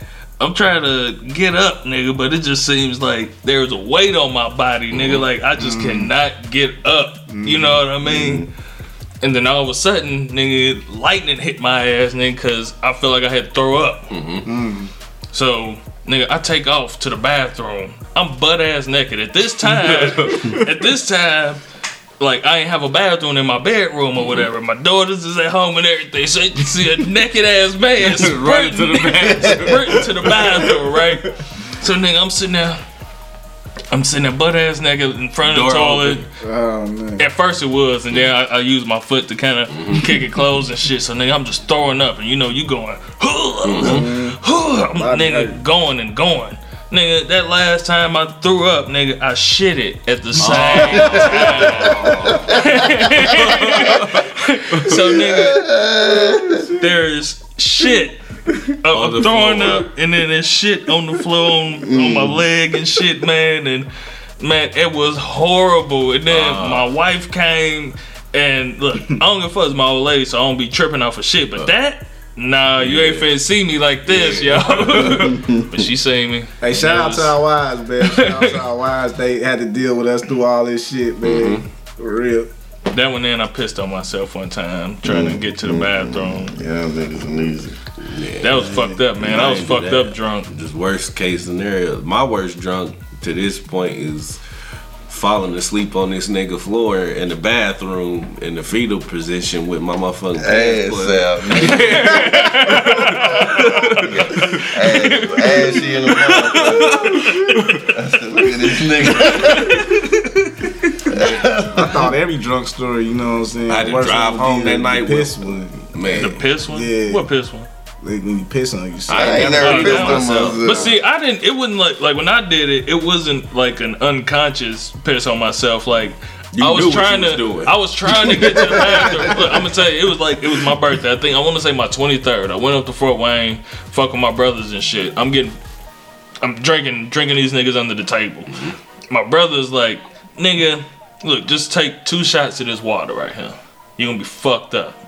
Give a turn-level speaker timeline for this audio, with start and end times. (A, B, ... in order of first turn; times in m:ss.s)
0:00.4-0:08.5 A
0:04.9-0:05.2 B
0:05.6-0:06.1 C
0:07.3-0:07.8 C
0:08.0-0:08.5 D
0:09.2-0:14.1 A
0:14.1-0:14.5 B
0:14.4-0:14.9 C
0:15.3-0:21.6 A
0:19.8-0:20.6 B
0:22.2-0:32.8 A
0:24.2-0:24.5 B
0:28.0-0:30.3 B
0:33.9-0:36.2 A
0:35.4-0:36.3 B
0:36.4-0:37.2 C
0:37.2-0:55.7 A
0:39.7-0:40.1 B
0:43.6-0:44.1 B
0:43.8-0:45.6 C
0:50.4-0:52.6 B
0:50.9-0:52.7 D
0:53.3-0:54.2 B
0:54.9-0:56.7 D
0:56.6-1:03.9 A
0:58.9-0:59.9 B
1:01.8-1:02.4 D
1:04.4-1:17.4 A
1:06.3-1:06.8 B
1:12.8-1:13.3 B
1:14.1-1:15.1 B
1:15.0-1:15.8 D
1:16.6-1:22.5 C
1:18.0-1:18.6 A
1:21.2-1:21.6 B
1:22.9-1:26.5 A
1:25.0-1:27.8 D
1:28.0-1:34.4 B
1:28.4-1:30.5 A
1:28.6-1:29.0 C
1:35.1-1:44.6 B
1:40.4-1:42.2 D
1:42.0-1:43.9 A
1:43.3-1:47.2 D
1:44.8-1:45.7 A
1:46.1-1:47.9 B
1:47.9-1:50.0 D
1:49.4-1:49.8 A
1:51.0-1:52.1 D
1:51.7-1:57.3 C
1:53.7-1:56.4 B
1:56.0-1:57.7 A
1:58.0-2:00.9 C
1:59.1-2:00.5 B
1:59.1-2:01.0 D
1:59.2-2:15.6 A
2:06.5-2:07.7 B
2:08.3-2:09.5 D
2:16.4-2:24.9 A